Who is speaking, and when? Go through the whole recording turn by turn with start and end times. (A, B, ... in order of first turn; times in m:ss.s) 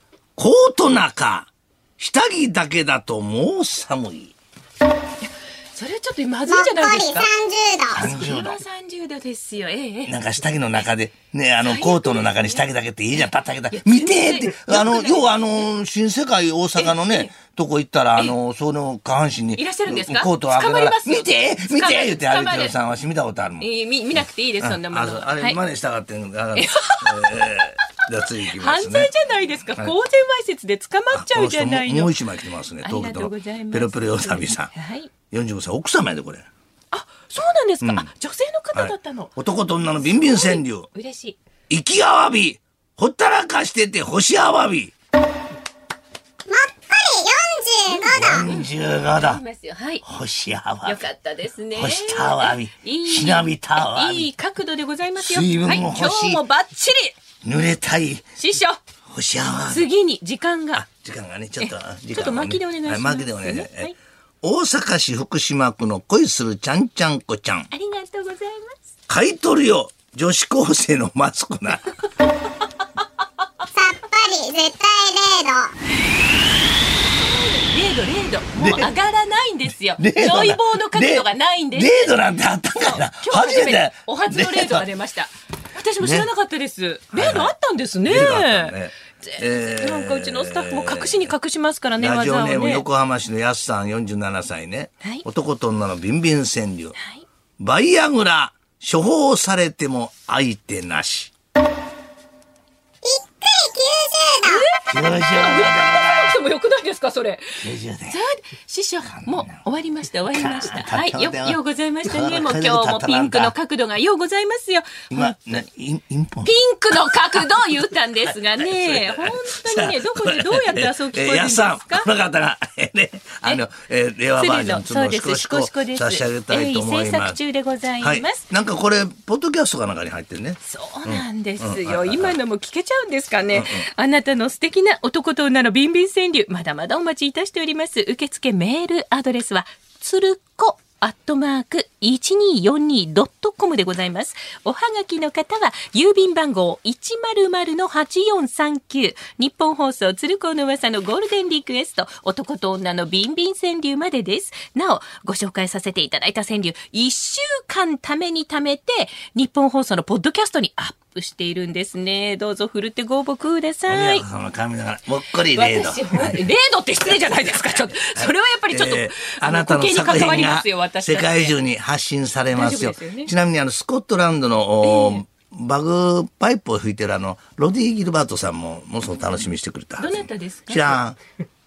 0:00.4-0:04.4 A
0:05.2-0:07.3 B
0:06.5-0:08.0 C
0:07.9-0:10.1 B
0:08.0-0:08.6 A
0:10.1-0:23.6 A
0:11.6-0:12.6 B
0:13.7-0:15.5 B
0:16.8-0:17.3 B
0:19.5-0:22.8 B
0:23.6-0:25.6 B
0:24.6-0:29.1 A
0:26.6-0:27.3 B
0:28.4-0:32.2 B
0:31.1-0:34.7 A
0:32.8-0:35.1 B
0:35.3-0:36.5 A
0:36.9-0:39.3 B
0:37.8-0:38.1 A
0:38.7-0:40.9 A
0:40.1-0:41.4 B
0:41.7-0:44.9 A
0:46.5-0:48.5 C
0:48.1-0:49.4 A
0:49.1-0:50.0 B
0:50.0-0:51.0 A
0:50.8-0:57.2 B
0:51.7-0:54.3 A
0:55.2-0:56.4 A
0:57.4-0:58.2 A
0:58.4-0:58.8 B
0:59.1-0:59.9 A
0:59.7-1:00.8 B
1:00.7-1:07.7 A
1:01.6-1:03.9 B
1:07.7-1:08.8 B
1:09.1-1:12.0 A
1:13.7-1:15.7 C
1:17.1-1:22.2 B
1:18.6-1:18.9 A
1:20.0-1:24.9 A
1:22.8-1:32.8 B
1:26.0-1:26.3 A
1:27.1-1:27.5 A
1:28.0-1:31.3 A
1:32.0-1:37.0 A
1:37.0-1:37.2 B
1:37.6-1:41.3 A
1:43.0-1:44.6 C
1:44.4-1:55.5 B
1:44.9-1:46.4 A
1:47.6-1:48.2 A
1:49.0-1:49.6 A
1:50.3-1:53.5 A
1:55.1-1:56.5 A
1:56.4-2:02.1 B
1:58.2-2:07.4 A
2:04.4-2:08.4 B
2:08.0-2:12.4 A
2:10.6-2:44.2 B
2:13.5-2:13.9 A
2:43.9-2:46.5 A
2:45.5-2:51.5 B
2:47.4-3:01.2 A
2:52.5-2:53.3 B
2:54.8-2:55.2 B
3:00.0-3:01.0 B